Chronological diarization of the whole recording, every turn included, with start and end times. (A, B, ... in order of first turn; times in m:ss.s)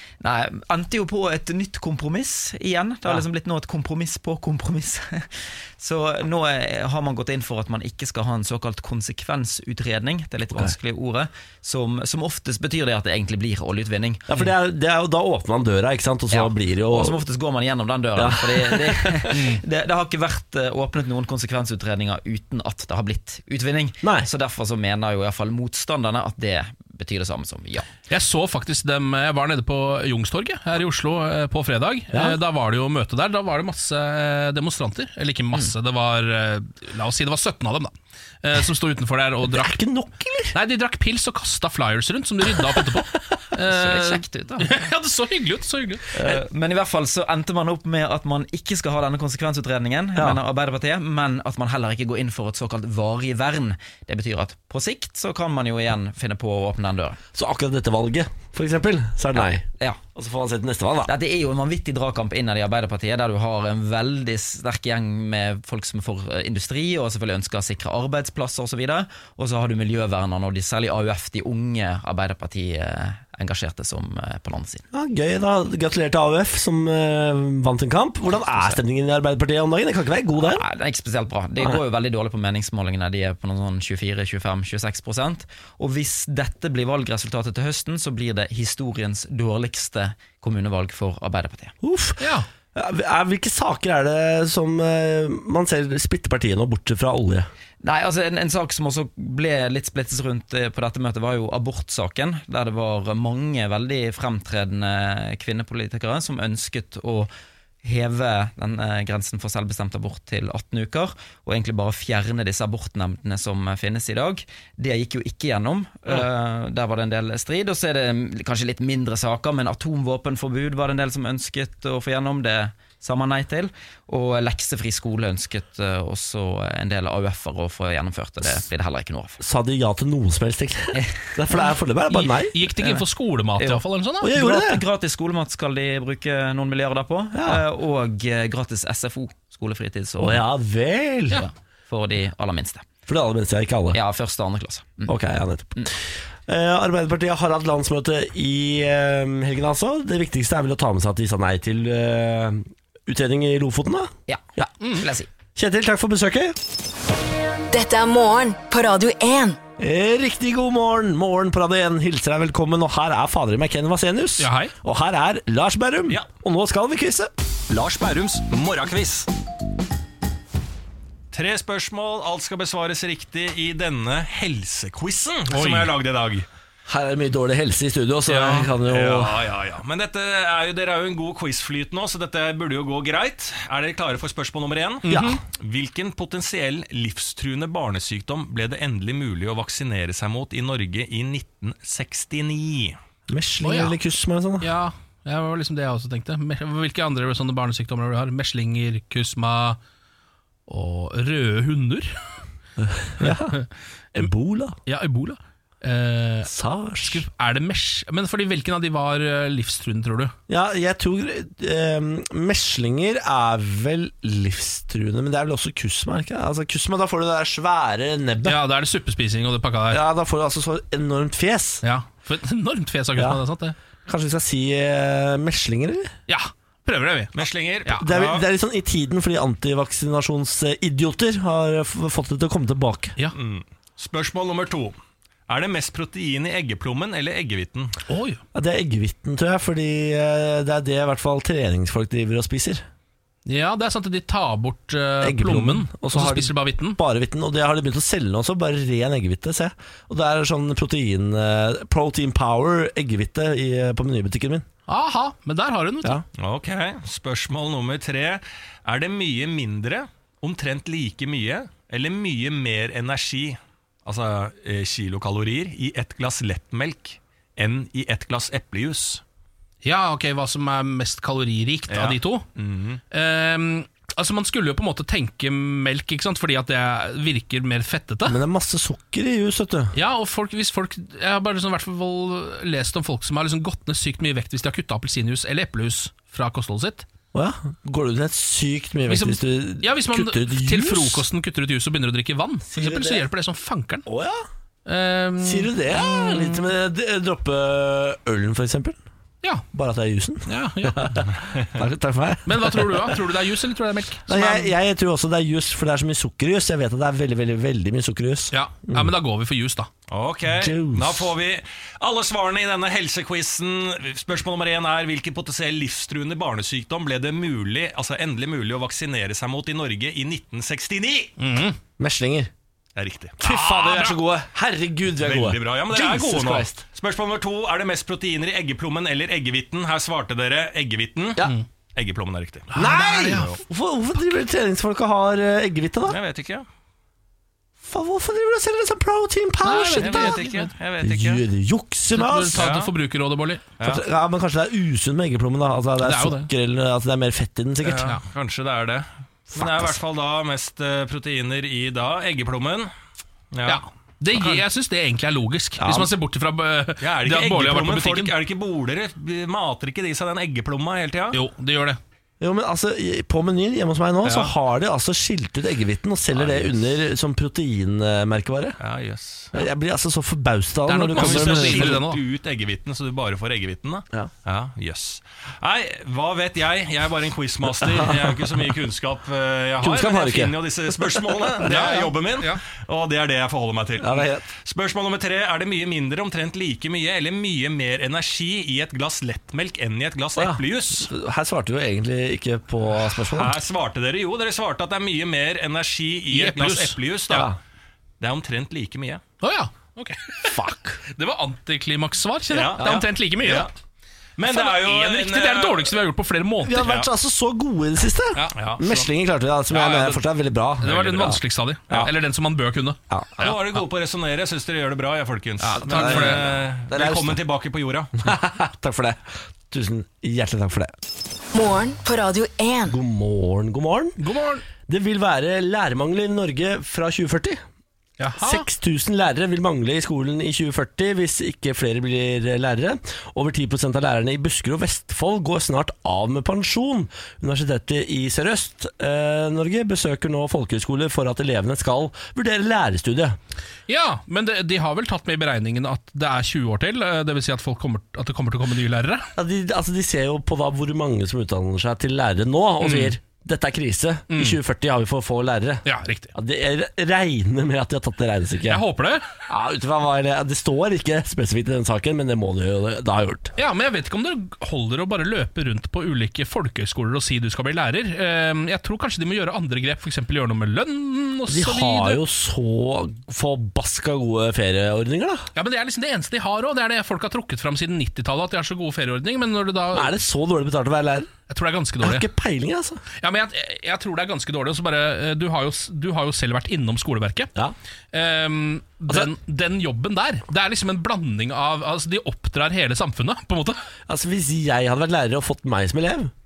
0:00.2-0:14.2 A
0:14.3-0:17.2 B
0:16.3-0:27.9 A
0:18.2-0:19.5 B
0:19.3-0:19.6 C
0:24.0-0:24.3 B
0:28.1-0:39.7 C
0:32.1-0:32.4 B
0:39.4-0:40.5 B
0:40.5-0:46.1 C
0:43.6-0:44.7 A
0:46.1-0:57.2 A
0:50.2-0:50.4 B
0:57.3-1:01.1 B
0:59.3-1:00.0 A
1:01.0-1:14.8 A
1:14.9-1:20.6 B
1:18.3-1:18.8 A
1:20.4-1:31.7 A
1:31.8-1:37.5 B
1:32.2-1:32.5 C
1:37.8-1:47.3 A
1:47.8-2:09.4 A
2:09.4-2:12.6 B
2:10.9-2:11.6 A
2:12.1-2:14.3 C
2:12.7-2:13.0 A
2:13.6-2:20.4 A
2:14.2-2:14.8 B
2:17.3-2:17.6 B
2:20.2-2:21.4 B
2:21.3-2:22.9 A
2:23.1-2:24.0 B
2:23.9-2:25.1 A
2:25.1-2:34.7 B
2:34.9-2:35.3 A
2:35.6-2:36.6 B
2:37.7-2:39.6 D
2:39.8-2:47.3 B
2:44.4-2:44.7 C
2:47.7-2:49.3 E
2:51.3-2:56.4 E
2:55.5-2:55.9 C
2:56.9-2:59.4 B
2:58.3-3:13.0 E
3:05.0-3:05.4 C
3:05.1-3:05.4 B
3:13.3-3:14.7 B
3:13.6-3:14.0 C
3:14.6-3:19.8 C
3:20.7-3:22.2 C
3:22.8-3:23.6 B
3:23.2-3:23.6 C
3:24.1-3:24.8 B
3:24.9-3:30.3 C
3:26.4-3:27.2 B
3:30.5-3:38.6 B
3:38.4-3:40.0 C
3:39.9-3:41.8 B
3:41.8-3:43.8 C
3:44.1-3:46.1 B
3:46.3-3:48.0 C
3:47.3-3:48.4 E
3:48.0-3:53.2 B
3:53.3-3:55.0 E
3:55.5-3:58.0 E
3:58.1-3:58.4 C
3:58.6-4:02.8 B
4:03.4-4:07.0 C
4:05.2-4:14.6 B
4:14.9-4:16.2 C
4:16.4-4:29.2 E
4:29.8-4:32.4 C
4:31.9-4:33.0 E
4:33.1-4:38.4 C
4:38.2-4:39.9 B
4:39.9-4:47.0 C
4:47.3-4:51.2 B
4:49.1-4:54.0 C
4:52.7-4:53.3 B
4:54.0-4:54.4 B
4:54.9-4:56.7 C
4:55.4-4:59.0 B
4:59.7-5:03.2 B
5:00.5-5:01.3 C
5:02.4-5:04.7 C
5:04.3-5:09.1 B
5:08.5-5:09.9 C
5:10.1-5:21.3 E
5:10.6-5:11.3 B
5:21.4-5:21.8 C
5:22.0-5:22.5 B
5:23.0-5:23.4 E
5:23.4-5:26.8 B
5:23.4-5:24.2 C
5:25.2-5:32.7 E
5:32.7-5:33.5 C
5:32.7-5:36.2 B
5:36.1-5:36.6 E
5:37.8-5:40.4 B
5:39.6-5:40.7 C
5:40.0-5:41.4 E
5:41.0-5:42.7 B
5:42.1-5:43.6 C
5:42.5-5:42.9 E
5:43.8-5:48.1 B
5:46.0-5:46.5 C
5:47.8-5:52.9 E
5:48.0-5:48.2 C
5:49.5-5:49.9 B
5:53.5-5:53.8 E
5:53.6-5:58.4 C
5:54.3-5:54.6 E
5:55.8-5:56.1 B
5:57.0-6:01.4 E
6:01.3-6:02.0 C
6:02.4-6:08.8 B
6:04.2-6:04.5 E
6:06.3-6:06.8 E
6:08.8-6:09.5 E
6:09.5-6:12.0 B
6:10.9-6:12.2 C
6:11.1-6:31.1 E
6:17.8-6:18.3 B
6:19.8-6:22.0 B
6:21.6-6:22.6 C
6:24.0-6:24.4 B
6:30.4-6:33.6 B
6:33.3-6:37.5 E
6:36.3-6:37.0 C
6:38.2-6:39.2 E
6:39.4-6:43.7 C
6:40.4-6:41.0 B
6:42.5-6:43.7 E
6:44.4-6:45.9 E
6:44.4-6:46.9 C
6:46.6-6:51.4 B
6:46.7-6:47.1 E
6:48.3-6:48.8 C
6:48.5-6:49.0 E
6:49.7-6:50.2 C
6:50.8-6:53.6 C
6:53.1-6:53.5 B
6:53.4-6:58.3 E
6:55.6-6:56.5 C
6:55.7-6:57.4 B
6:58.2-7:00.9 B
7:01.5-7:03.0 D
7:02.9-7:04.2 B
7:04.2-7:04.6 C
7:04.9-7:07.6 B
7:08.2-7:08.7 C
7:08.4-7:23.4 B
7:23.9-7:29.3 C
7:29.4-7:38.8 B
7:32.8-7:33.1 C
7:34.3-7:34.6 C
7:35.8-7:36.3 C
7:38.7-7:39.3 C
7:39.5-7:43.5 B
7:43.6-7:52.2 C
7:51.5-7:55.5 B
7:55.6-8:00.1 C
7:59.9-8:01.3 B
8:01.5-8:02.3 C
8:02.0-8:03.0 B
8:03.2-8:07.5 C
8:08.1-8:13.8 C
8:14.1-8:16.3 B